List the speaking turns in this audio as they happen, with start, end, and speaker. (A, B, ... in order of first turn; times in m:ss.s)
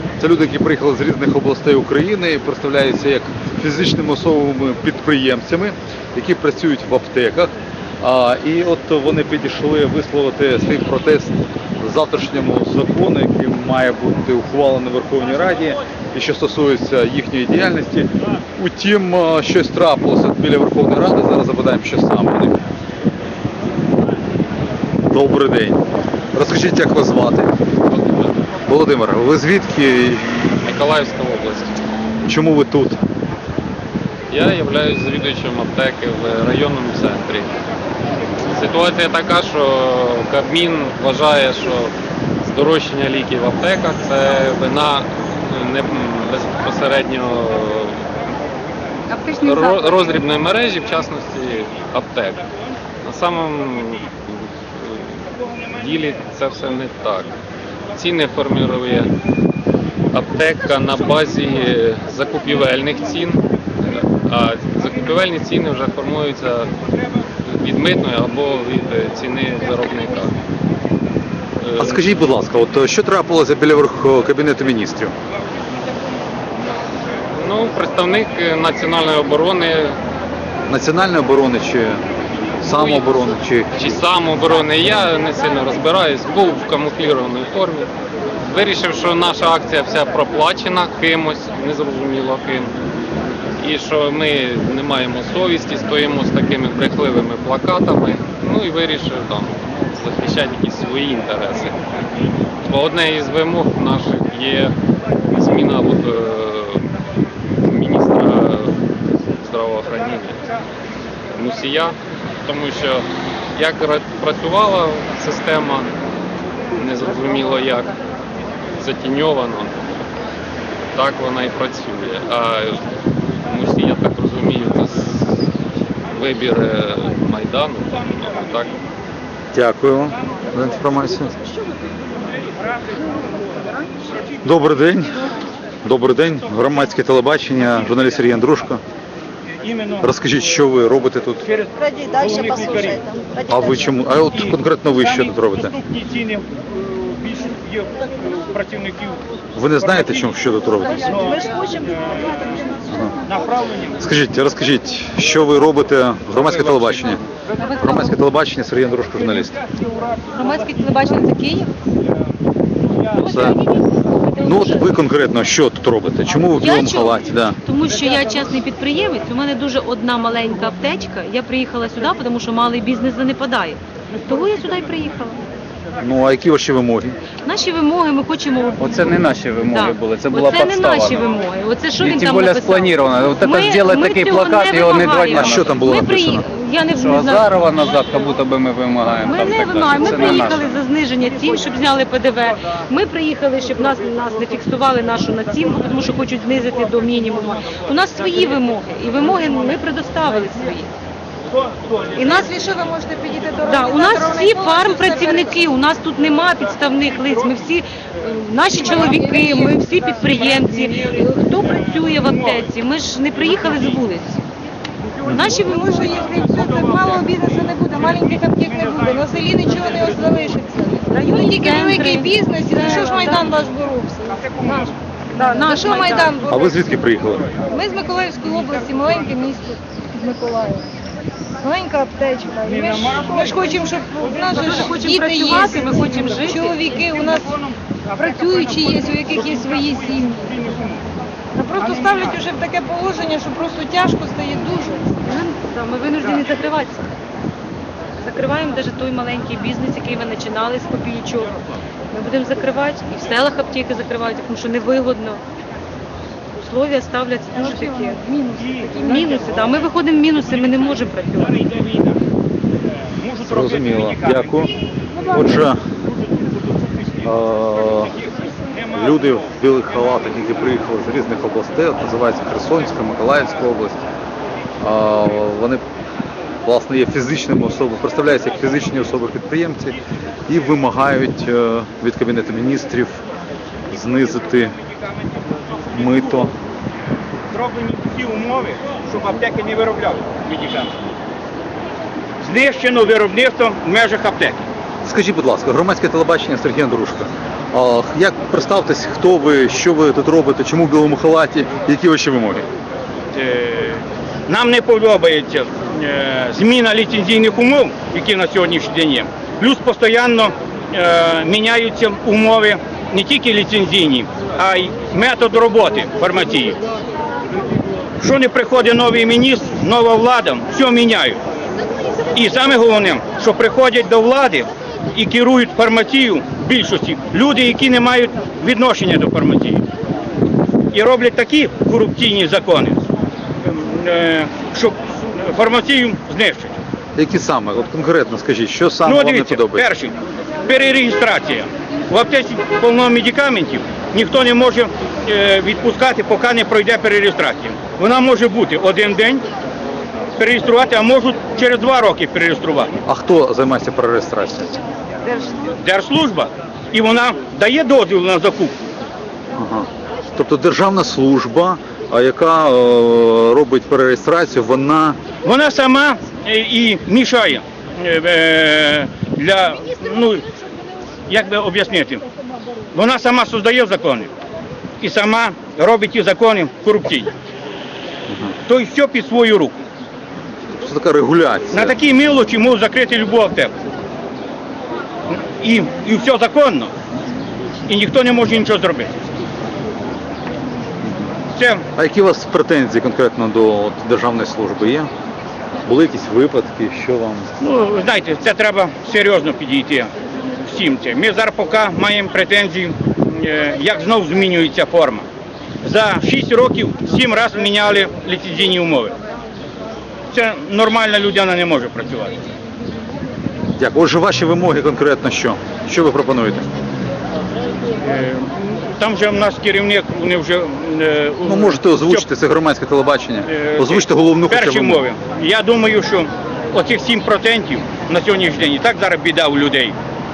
0:00.2-0:22.6 A
0:25.1-0:27.5 A
0:28.0-0:28.3 B
0:28.7-0:30.2 A
0:30.6-0:31.8 B
0:32.2-0:33.0 A
0:34.3-0:37.6 B
0:38.5-0:48.0 B
0:49.1-0:49.9 C
0:49.4-0:52.5 B
0:53.0-0:57.4 B
0:57.9-0:59.1 B
1:00.1-1:06.7 B
1:07.4-1:10.4 B
1:11.6-1:12.1 B
1:11.8-1:15.1 A
1:17.3-1:20.0 B
1:20.7-1:22.0 A
1:22.6-1:24.0 A
1:22.6-1:27.9 B
1:28.4-1:32.7 B
1:33.6-1:41.8 B
1:42.6-1:44.8 B
1:45.3-1:46.9 B
1:47.6-1:48.8 B
1:49.4-1:50.4 B
1:51.4-1:55.9 B
1:56.8-1:57.9 B
1:58.8-1:59.8 B
2:00.9-2:02.9 B
2:03.4-2:05.4 B
2:06.1-2:08.8 B
2:09.5-2:11.4 A
2:14.4-2:15.2 A
2:15.8-2:18.8 A
2:19.6-2:20.1 D
2:20.0-2:21.5 A
2:21.4-2:23.1 D
2:21.9-2:23.7 C
2:23.5-2:25.8 A
2:24.3-2:29.2 D
2:29.6-2:31.2 A
2:29.8-2:30.3 D
2:30.9-2:32.6 D
2:31.1-2:32.8 C
2:32.9-2:33.2 A
2:33.2-2:33.9 D
2:34.0-2:37.2 A
2:37.6-2:38.2 E
2:37.8-2:39.6 A
2:40.3-2:41.7 E
2:43.2-2:44.9 E
2:43.2-2:43.6 A
2:44.4-2:47.6 A
2:46.5-2:55.4 E
2:56.0-2:57.2 A
2:57.4-2:59.1 E
2:58.8-3:01.3 F
2:59.7-3:07.5 E
3:02.0-3:05.9 F
3:05.3-3:06.4 A
3:06.9-3:10.8 F
3:09.2-3:20.9 E
3:22.2-3:22.5 E
3:22.2-3:25.6 C
3:23.6-3:34.4 E
3:28.7-3:29.8 C
3:30.7-3:31.0 C
3:35.2-3:35.9 E
3:35.5-3:44.6 C
3:41.1-3:43.6 E
3:45.3-3:46.4 E
3:45.4-3:46.8 C
3:46.5-3:47.5 A
3:47.6-3:50.9 C
3:51.6-4:00.7 C
3:53.1-3:53.4 D
3:54.5-3:56.8 E
3:58.8-3:59.8 D
4:01.6-4:05.1 C
4:05.2-4:07.1 E
4:08.2-4:11.6 E
4:12.1-4:15.4 E
4:16.6-4:18.2 E
4:17.6-4:19.4 C
4:18.9-4:21.7 E
4:23.2-4:24.7 D
4:23.4-4:24.7 A
4:25.2-4:25.8 A
4:27.2-4:28.2 A
4:28.9-4:34.0 A
4:34.8-4:35.8 A
4:36.6-4:43.2 A
4:43.9-4:44.8 A
4:45.9-4:46.5 A
4:47.5-4:50.9 D
4:52.4-4:54.7 D
4:55.0-5:02.7 A
5:03.3-5:16.8 D
5:18.2-5:21.4 D
5:22.3-5:29.8 D
5:30.9-5:33.0 D
5:33.6-5:36.8 D
5:37.2-5:39.8 A
5:39.0-5:49.4 D
5:50.4-5:52.9 D
5:53.1-5:54.8 A
5:55.6-5:58.8 D
5:59.6-6:05.2 A
6:05.4-6:10.4 D
6:11.3-6:12.2 D
6:12.9-6:14.3 D
6:15.0-6:17.3 D
6:18.7-6:19.8 D
6:20.7-6:22.0 A
6:21.7-6:23.7 D
6:25.3-6:26.9 D
6:27.9-6:29.2 D
6:31.0-6:31.3 A
6:31.6-6:31.8 D
6:31.9-6:35.1 A
6:35.8-6:37.5 A
6:37.6-6:40.1 D
6:40.6-6:45.2 D
6:45.8-6:49.1 D
6:50.3-6:52.4 D
6:53.8-6:56.7 A
6:58.0-7:02.2 D
7:01.4-7:05.0 A
7:03.5-7:10.0 D